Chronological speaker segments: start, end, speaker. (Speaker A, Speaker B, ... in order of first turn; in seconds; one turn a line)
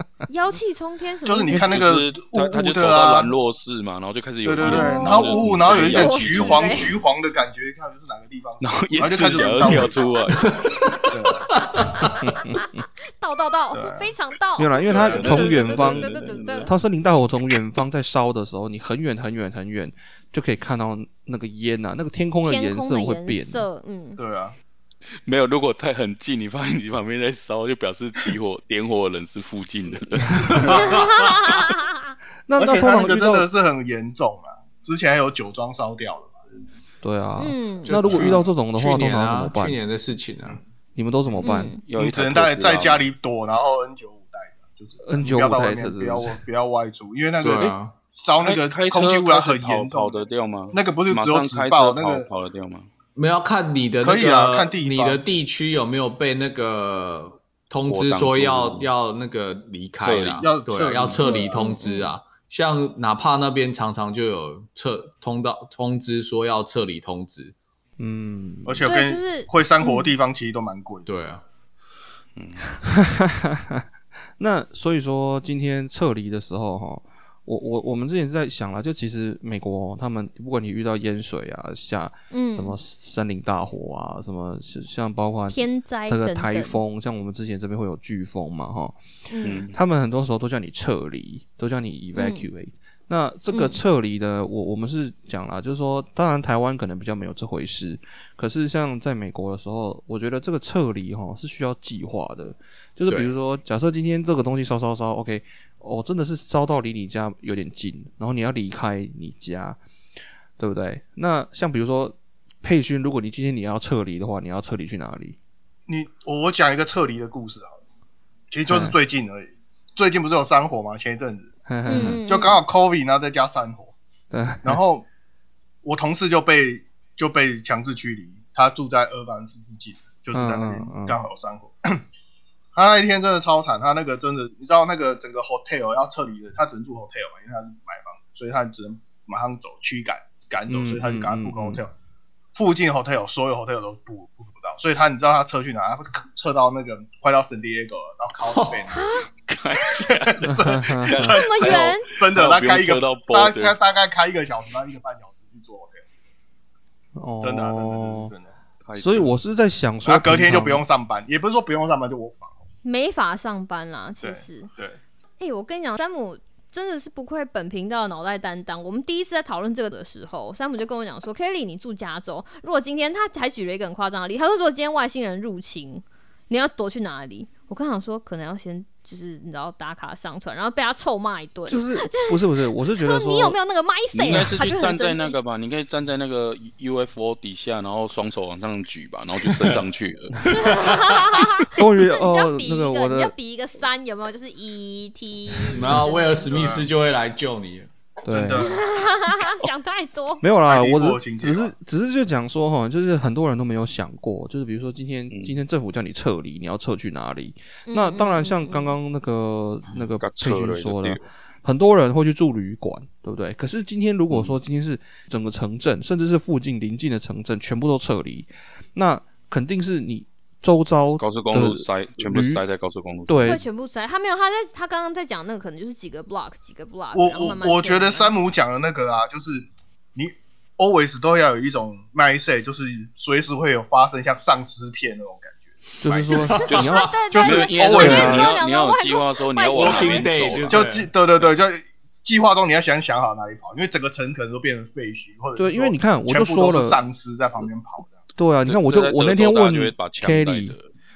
Speaker A: 0.3-1.8
Speaker B: 1.2-3.3
Speaker C: 1.5-1.8
Speaker D: 1.5-7.0
Speaker B: 4.4-11.5
Speaker A: 4.6-6.9
Speaker D: 8.6-10.6
Speaker E: 10.4-12.2
Speaker A: 11.9-12.7
Speaker C: 12.2-12.8
Speaker A: 13.2-16.7
Speaker B: 13.7-14.1
Speaker C: 14.6-23.6
Speaker B: 14.9-15.7
Speaker D: 14.9-16.7
Speaker A: 22.4-24.2
Speaker B: 24.2-24.6
Speaker D: 25.2-31.0
Speaker E: 30.3-31.6
Speaker A: 30.7-31.9
Speaker C: 32.5-33.5
Speaker B: 32.6-36.4
Speaker C: 37.0-39.8
Speaker A: 37.4-38.2
Speaker E: 37.9-40.6
Speaker C: 40.9-41.7
Speaker A: 41.4-41.8
Speaker D: 41.8-43.0
Speaker B: 42.0-52.2
Speaker C: 45.0-46.4
Speaker E: 47.4-48.0
Speaker D: 48.4-52.9
Speaker E: 53.1-67.5
Speaker B: 54.0-55.2
Speaker D: 57.9-58.9
Speaker D: 60.0-60.5
Speaker B: 60.4-61.7
Speaker A: 61.2-62.1
Speaker C: 68.0-68.9
Speaker B: 68.7-71.1
Speaker A: 68.8-70.1
Speaker E: 71.1-71.4
Speaker D: 72.4-72.8
Speaker C: 72.8-73.9
Speaker C: 74.4-89.0
Speaker A: 82.3-82.8
Speaker A: 85.5-86.8
Speaker A: 89.3-89.6
Speaker D: 89.4-89.8
Speaker C: 89.7-109.8
Speaker A: 92.1-92.5
Speaker A: 93.5-93.8
Speaker C: 110.6-115.4
Speaker B: 115.9-117.8
Speaker B: 118.5-123.9
Speaker C: 118.7-119.0
Speaker C: 121.7-122.2
Speaker A: 121.9-122.6
Speaker C: 124.3-124.8
Speaker B: 124.6-125.0
Speaker B: 125.8-132.0
Speaker C: 130.3-131.2
Speaker B: 132.7-141.9
Speaker C: 140.7-141.8
Speaker B: 142.5-149.2
Speaker E: 148.4-148.9
Speaker A: 148.9-149.3
Speaker D: 149.5-153.8
Speaker B: 150.1-156.0
Speaker C: 150.4-151.3
Speaker A: 151.2-152.1
Speaker C: 157.2-158.3
Speaker B: 157.4-158.5
Speaker D: 158.8-159.3
Speaker C: 158.9-160.8
Speaker B: 160.0-162.5
Speaker A: 162.8-164.7
Speaker B: 164.2-165.0
Speaker A: 165.4-185.4
Speaker C: 181.7-183.6
Speaker D: 184.1-190.4
Speaker E: 189.5-189.8
Speaker E: 190.5-191.2
Speaker A: 190.5-196.3
Speaker C: 191.7-193.3
Speaker E: 195.7-197.9
Speaker B: 196.1-196.9
Speaker C: 198.2-198.7
Speaker B: 198.3-198.8
Speaker A: 198.6-200.4
Speaker C: 200.4-222.6
Speaker B: 200.7-201.7
Speaker D: 205.3-205.6
Speaker A: 207.9-208.9
Speaker D: 210.2-211.2
Speaker D: 214.3-214.6
Speaker D: 221.2-223.6
Speaker C: 223.3-223.6
Speaker A: 223.4-228.3
Speaker B: 227.1-236.5
Speaker C: 236.0-237.2
Speaker E: 236.3-237.1
Speaker A: 236.6-240.3
Speaker D: 236.7-240.8
Speaker B: 237.3-238.5
Speaker C: 238.0-238.5
Speaker E: 239.7-241.1
Speaker B: 240.7-248.2
Speaker C: 245.6-247.0
Speaker C: 248.4-250.7
Speaker D: 248.6-250.9